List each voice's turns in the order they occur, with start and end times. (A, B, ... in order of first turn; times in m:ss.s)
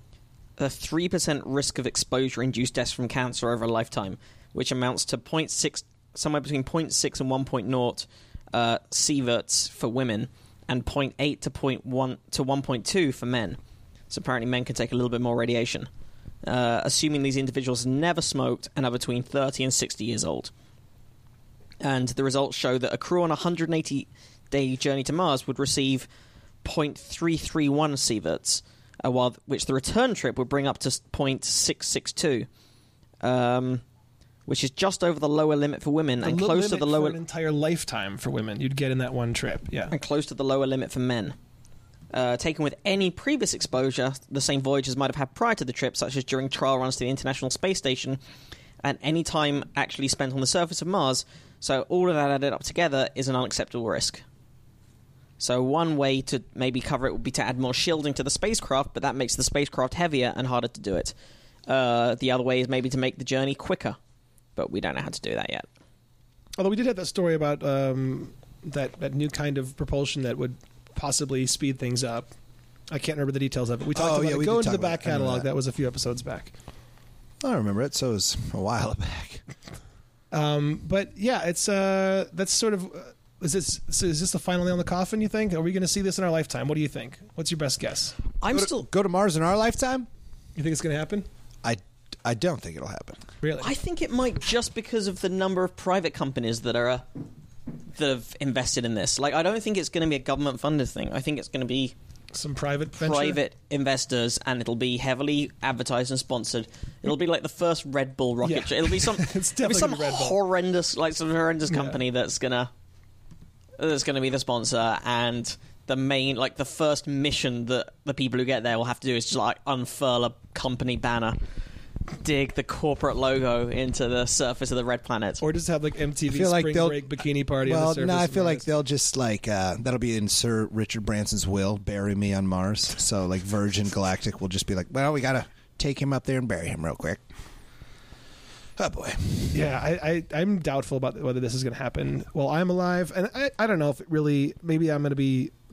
0:00.6-0:13.6 A
0:14.1-0:15.9 A
0:16.4-0:20.5 A
0:21.8-0:26.1 A
0:26.6-0:32.5 A
0:33.2-0:33.8 A
0:34.5-0:37.2 A
0:36.2-0:39.9 B
0:39.9-0:41.4 A
0:42.1-0:48.2 A
0:48.8-0:54.2 A
0:55.4-1:01.1 A
1:01.7-1:04.0 A
1:04.6-1:05.7 A
1:06.6-1:12.3 B
1:12.9-1:16.6 B
1:13.9-1:15.5 C
1:17.4-1:19.4 C
1:20.3-1:28.2 B
1:28.4-1:28.8 A
1:28.5-1:30.1 C
1:30.6-1:31.3 B
1:31.6-1:33.2 C
1:33.4-1:33.7 B
1:33.6-1:37.0 A
1:38.0-1:41.9 A
1:42.3-1:43.4 B
1:43.0-1:52.7 A
1:48.4-1:50.4 B
1:51.7-1:52.0 B
1:53.8-2:01.4 A
2:02.1-2:05.4 A
2:05.4-2:08.6 B
2:06.3-2:07.1 C
2:07.6-2:17.2 C
2:18.8-2:19.7 C
2:19.5-2:25.5 B